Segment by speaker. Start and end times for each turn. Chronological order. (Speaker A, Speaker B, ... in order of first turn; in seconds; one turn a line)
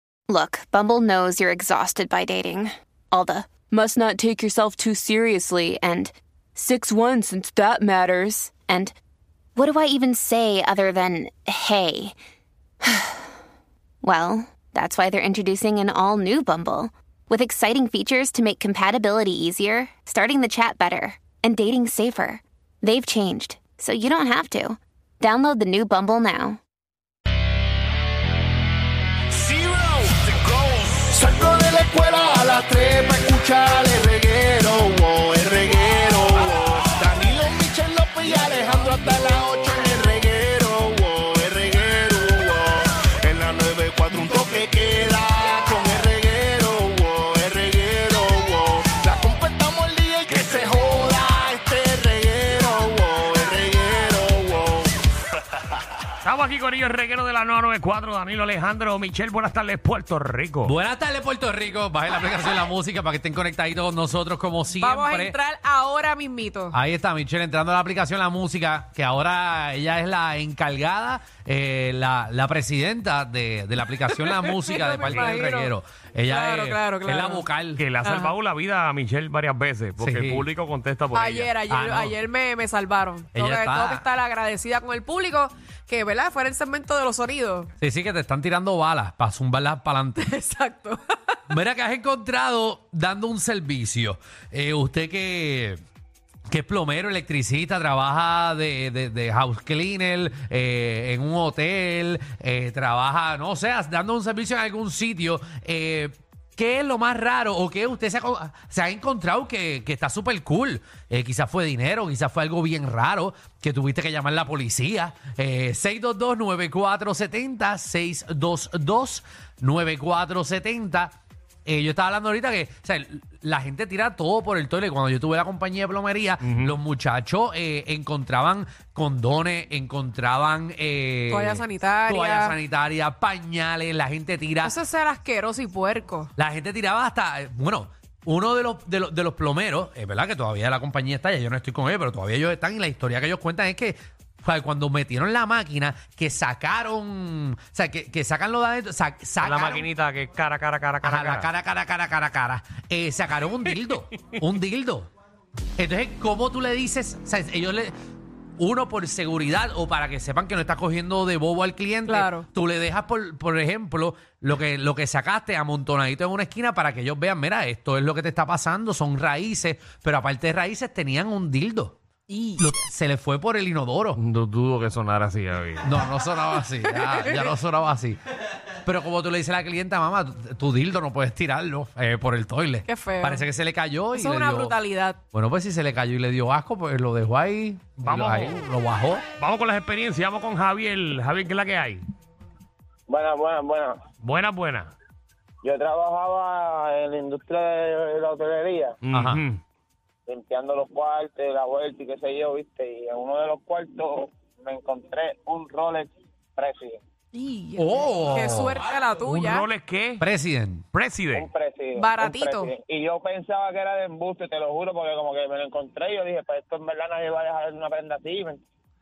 Speaker A: 0.3-8.9
Speaker A: 9.6-12.2
Speaker A: 12.8-13.3
Speaker A: 14.0-26.6
Speaker B: 29.3-54.9
Speaker C: 56.2-60.7
Speaker D: 60.6-65.4
Speaker E: 64.8-66.8
Speaker D: 66.7-77.8
Speaker E: 74.2-75.7
Speaker C: 75.0-75.4
Speaker E: 76.3-77.4
Speaker C: 77.7-81.5
Speaker E: 78.0-78.3
Speaker D: 80.0-80.5
Speaker E: 81.1-87.7
Speaker D: 81.7-82.2
Speaker D: 83.3-84.0
Speaker D: 87.8-90.2
Speaker E: 90.2-91.4
Speaker D: 91.5-95.8
Speaker D: 96.5-121.1
Speaker D: 121.7-134.7
Speaker C: 126.4-126.7
Speaker E: 131.3-132.6
Speaker E: 134.6-136.3
Speaker D: 136.3-149.8
Speaker C: 149.4-151.5
Speaker D: 151.0-155.1
Speaker D: 155.8-157.9
Speaker D: 158.6-172.0
Speaker E: 162.1-162.4
Speaker E: 172.3-172.6
Speaker D: 172.6-174.2
Speaker C: 174.2-175.9
Speaker D: 175.8-178.2
Speaker E: 176.8-177.5
Speaker D: 178.8-184.8
Speaker E: 182.9-183.4
Speaker E: 184.1-185.2
Speaker D: 185.3-189.2
Speaker C: 188.0-188.6
Speaker C: 189.4-192.1
Speaker F: 193.1-194.0
Speaker C: 194.2-194.9
Speaker F: 195.6-199.0
Speaker C: 199.0-199.6
Speaker D: 199.1-199.4
Speaker F: 200.3-207.0
Speaker E: 207.3-209.7
Speaker D: 207.8-208.9
Speaker C: 209.2-210.2
Speaker D: 210.2-210.8
Speaker C: 210.9-211.5
Speaker F: 211.4-218.6
Speaker E: 211.9-212.7